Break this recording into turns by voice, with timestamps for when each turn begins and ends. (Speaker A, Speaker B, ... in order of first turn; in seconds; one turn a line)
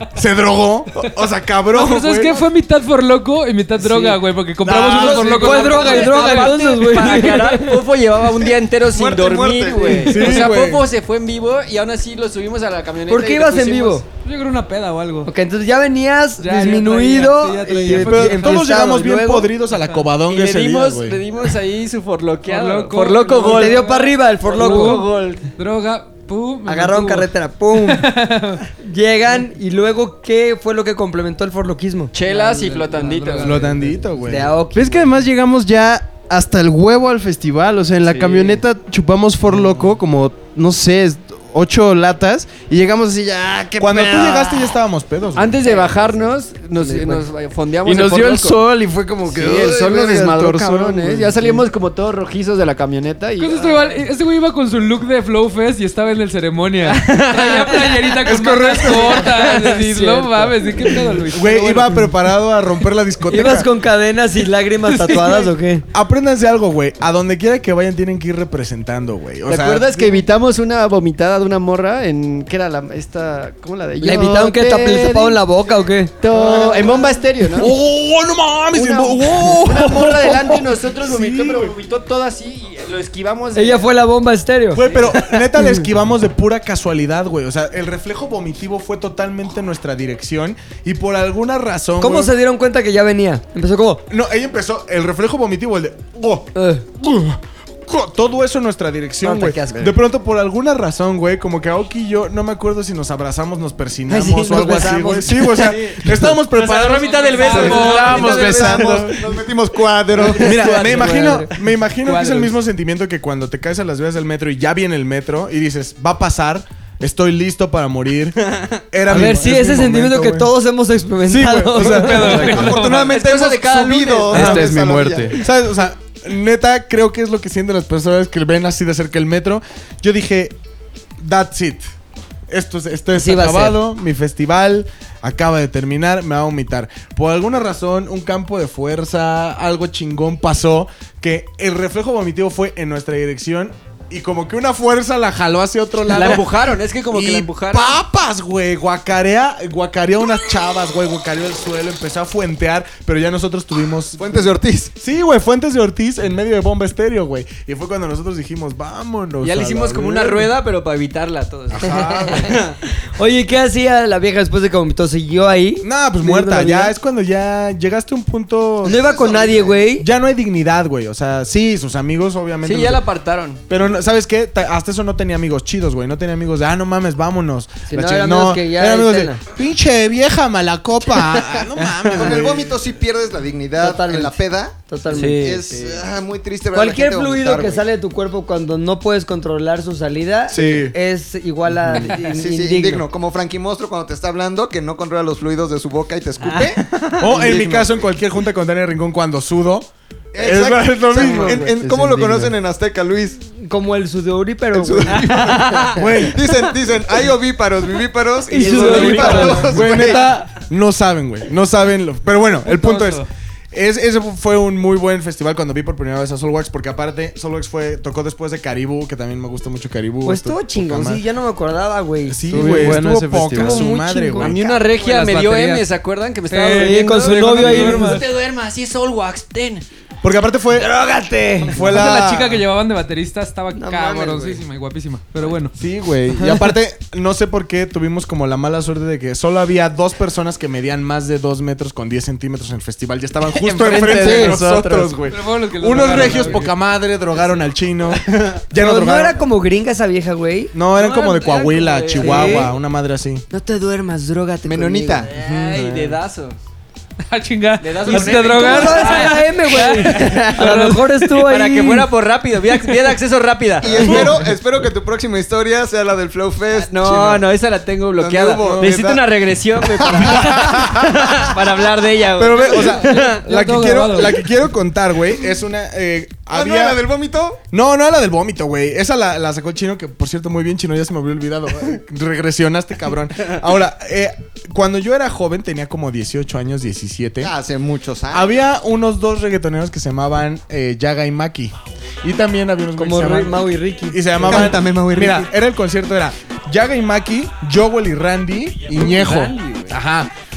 Speaker A: 0.1-2.5
Speaker B: 1.7-7.5
Speaker C: 3.8-4.2
Speaker A: 4.6-5.4
Speaker C: 4.8-14.0
Speaker D: 5.3-7.8
Speaker E: 8.4-10.3
Speaker A: 10.0-10.8
Speaker D: 13.1-14.0
Speaker B: 14.2-15.3
Speaker D: 15.2-19.5
Speaker B: 16.4-18.6
Speaker A: 17.9-21.2
Speaker C: 20.3-25.5
Speaker B: 22.4-25.1
Speaker D: 23.4-25.0
Speaker B: 25.6-28.6
Speaker D: 26.6-28.1
Speaker D: 28.8-32.9
Speaker C: 32.1-33.7
Speaker B: 32.4-34.1
Speaker A: 33.4-34.5
Speaker D: 34.2-35.1
Speaker F: 34.7-44.7
Speaker C: 38.0-38.6
Speaker A: 43.8-45.6
Speaker C: 45.4-48.6
Speaker D: 46.8-47.2
Speaker F: 47.8-51.5
Speaker C: 49.2-54.0
Speaker B: 53.4-62.0
Speaker C: 56.8-61.1
Speaker A: 58.2-59.3
Speaker A: 61.3-63.7
Speaker D: 63.3-65.8
Speaker B: 65.0-65.5
Speaker A: 65.9-70.2
Speaker C: 69.5-75.4
Speaker D: 74.0-76.1
Speaker C: 76.2-77.8
Speaker A: 76.3-81.8
Speaker C: 78.7-83.9
Speaker D: 83.5-84.8
Speaker A: 84.7-92.3
Speaker C: 84.9-85.4
Speaker D: 92.0-94.0
Speaker A: 94.1-109.0
Speaker D: 96.5-96.8
Speaker D: 99.2-100.0
Speaker D: 104.1-105.7
Speaker C: 105.5-108.7
Speaker B: 106.8-108.6
Speaker F: 107.5-109.2
Speaker E: 107.5-110.8
Speaker C: 110.2-111.4
Speaker D: 110.4-111.5
Speaker A: 110.4-120.5
Speaker B: 112.0-112.5
Speaker C: 118.5-118.8
Speaker D: 119.1-122.5
Speaker A: 121.2-122.5
Speaker B: 121.8-123.1
Speaker E: 122.4-125.3
Speaker C: 122.4-124.6
Speaker F: 124.3-125.4
Speaker A: 124.3-124.7
Speaker A: 125.4-130.6
Speaker A: 131.2-131.8
Speaker A: 132.5-146.5
Speaker D: 133.1-133.8
Speaker C: 146.1-148.0
Speaker A: 147.1-154.4
Speaker E: 154.2-154.9
Speaker A: 155.0-160.5
Speaker C: 159.4-162.8
Speaker A: 161.7-162.6
Speaker D: 161.9-162.3
Speaker D: 163.2-166.9
Speaker A: 165.8-169.1
Speaker E: 168.8-169.8
Speaker D: 168.8-170.1
Speaker A: 170.0-173.0
Speaker C: 172.6-173.6
Speaker A: 173.7-182.7
Speaker D: 177.9-179.4
Speaker E: 182.1-187.8
Speaker D: 183.8-185.6
Speaker C: 185.1-186.1
Speaker D: 186.7-193.0
Speaker A: 190.5-190.9
Speaker E: 192.1-197.9
Speaker C: 196.4-197.5
Speaker A: 197.2-201.8
Speaker E: 200.3-203.4
Speaker D: 201.2-201.5
Speaker F: 201.8-202.5
Speaker D: 203.6-205.9
Speaker E: 204.7-210.3
Speaker A: 205.9-206.4
Speaker D: 208.5-210.1
Speaker A: 208.5-221.2
Speaker C: 208.6-209.4
Speaker B: 212.6-213.2
Speaker D: 220.2-224.6
Speaker A: 222.2-224.6
Speaker F: 222.5-223.8
Speaker C: 224.4-229.8
Speaker B: 224.9-225.9
Speaker B: 226.5-228.2
Speaker D: 226.7-228.2
Speaker A: 230.2-230.9
Speaker D: 230.7-231.8
Speaker A: 231.6-232.6
Speaker B: 231.8-235.8
Speaker D: 233.7-234.6
Speaker A: 235.8-249.4
Speaker C: 243.7-245.1
Speaker F: 243.8-244.6
Speaker B: 245.2-246.7
Speaker C: 245.9-246.6
Speaker D: 248.7-250.7
Speaker A: 250.7-253.4
Speaker C: 250.9-252.7
Speaker D: 252.2-252.7
Speaker D: 253.5-255.3
Speaker E: 254.6-255.3
Speaker C: 255.3-256.6
Speaker B: 257.3-261.2
Speaker C: 257.8-264.4
Speaker D: 258.1-262.1
Speaker E: 263.8-267.4
Speaker C: 266.7-273.4
Speaker E: 268.1-269.2
Speaker A: 268.6-268.9
Speaker E: 270.0-270.5
Speaker A: 270.1-271.4
Speaker A: 272.4-277.0
Speaker B: 273.1-274.4
Speaker E: 276.5-277.6
Speaker A: 277.7-287.5
Speaker E: 287.4-288.6
Speaker A: 288.3-300.3
Speaker D: 292.9-294.7
Speaker E: 294.4-295.5
Speaker C: 298.9-300.0